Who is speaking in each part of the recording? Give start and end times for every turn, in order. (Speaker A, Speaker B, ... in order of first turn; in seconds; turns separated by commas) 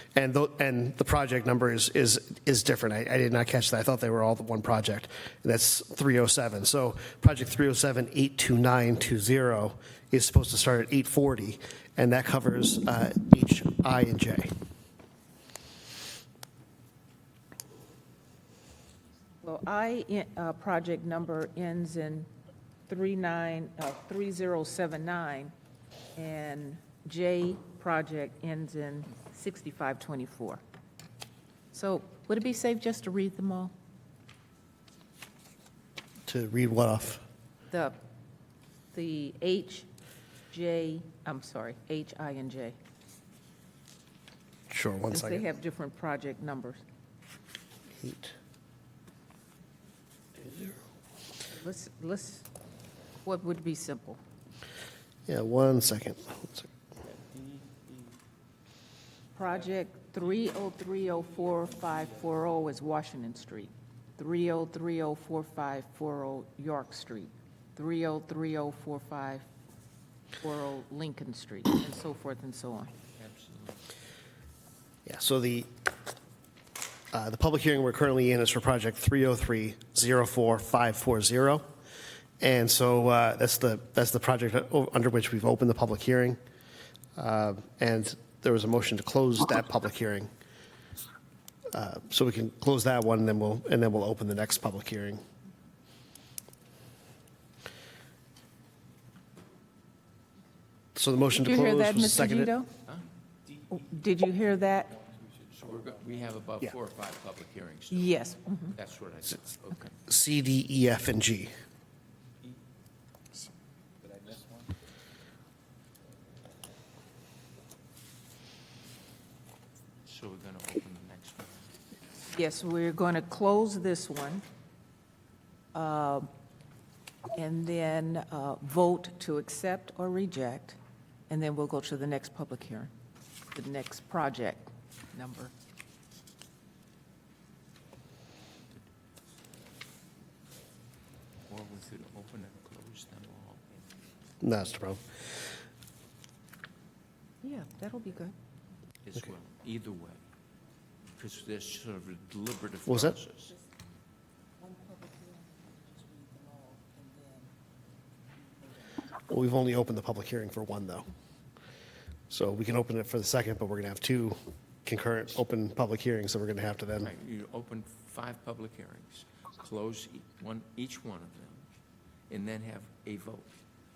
Speaker A: 0.1-14.5, Speaker B: 19.4-22.3, Speaker B: 22.9-25.5, Speaker B: 26.2-30.6, Speaker B: 31.7-33.7, Speaker A: 36.3-37.2, Speaker B: 37.7-38.0, Speaker B: 38.9-39.9, Speaker B: 40.5-42.8, Speaker A: 44.7-45.5, Speaker B: 45.1-46.8, Speaker A: 48.0-48.3, Speaker A: 50.4-50.7, Speaker B: 51.5-52.5, Speaker B: 53.2-54.2, Speaker A: 55.3-56.7, Speaker B: 59.4-69.5, Speaker B: 70.4-72.9, Speaker C: 73.2-73.9, Speaker A: 75.1-75.7, Speaker A: 77.1-81.7, Speaker A: 82.4-86.4, Speaker A: 87.2-90.3, Speaker A: 91.7-95.2, Speaker A: 101.0-102.5, Speaker B: 101.3-102.7, Speaker B: 103.7-105.0, Speaker C: 105.5-110.0, Speaker B: 107.9-108.8, Speaker A: 110.1-111.5, Speaker C: 120.0-121.8, Speaker B: 122.3-124.4, Speaker B: 125.7-126.3, Speaker B: 127.3-130.8, Speaker B: 131.3-132.9, Speaker B: 133.5-135.5, Speaker C: 141.5-143.8, Speaker A: 144.4-145.0, Speaker B: 147.4-148.3, Speaker C: 149.0-150.2, Speaker C: 151.2-153.6, Speaker A: 152.9-153.2, Speaker B: 154.6-157.5, Speaker A: 159.3-161.1, Speaker A: 162.3-167.1, Speaker C: 167.0-171.7, Speaker C: 172.3-173.6